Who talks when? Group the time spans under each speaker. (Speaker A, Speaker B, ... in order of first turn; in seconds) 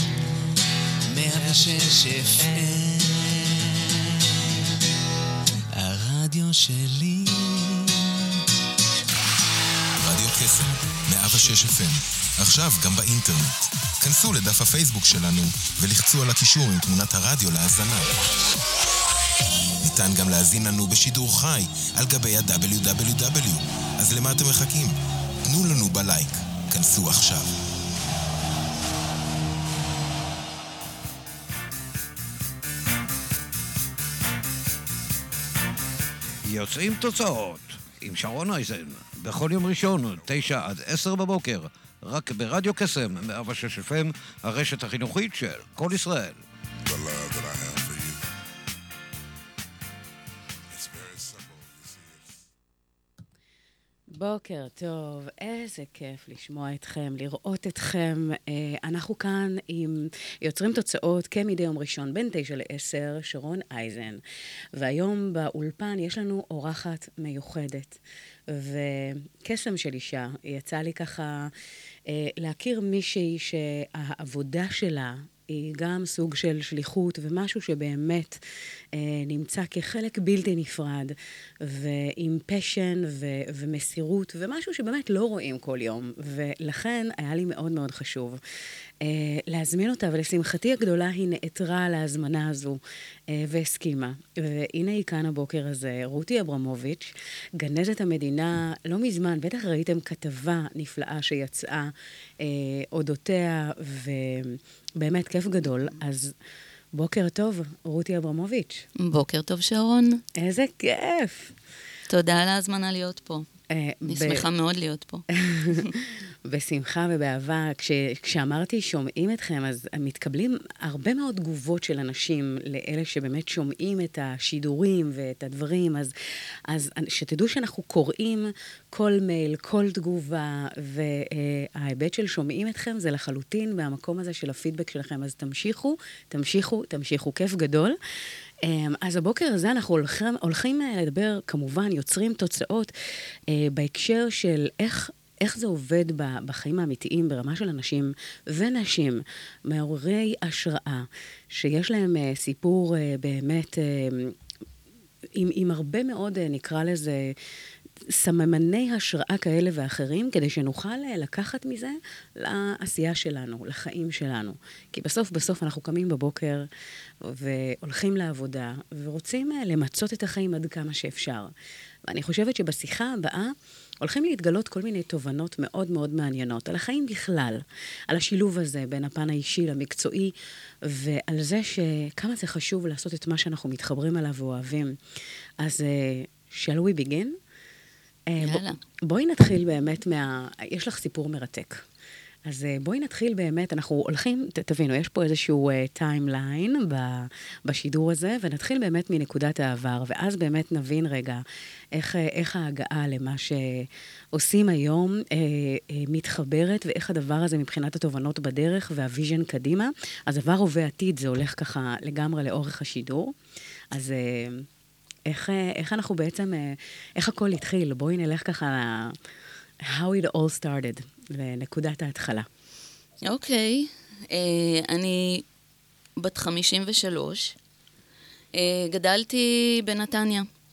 Speaker A: 1.1-3.8, 5.7-8.0, 10.4-11.6
Speaker B: 10.0-18.2, 19.8-27.5
Speaker C: 36.4-46.4
Speaker D: 46.9-48.2, 50.7-52.4
Speaker E: 54.1-64.2, 64.7-71.5, 72.0-78.4, 78.9-88.4, 89.0-106.3, 106.9-108.8, 110.3-111.5, 113.7-114.5, 115.3-126.1, 126.7-138.0, 138.6-142.9, 143.5-154.4, 155.3-157.3, 158.1-166.7, 167.2-171.5, 172.0-185.0, 185.6-187.4, 188.3-191.8, 192.4-213.3, 213.9-214.7, 215.3-219.2, 219.8-222.5
Speaker F: 109.0-110.2, 112.1-113.5, 114.0-115.9, 188.4-188.8, 223.2-225.4, 226.2-227.5, 228.5-230.5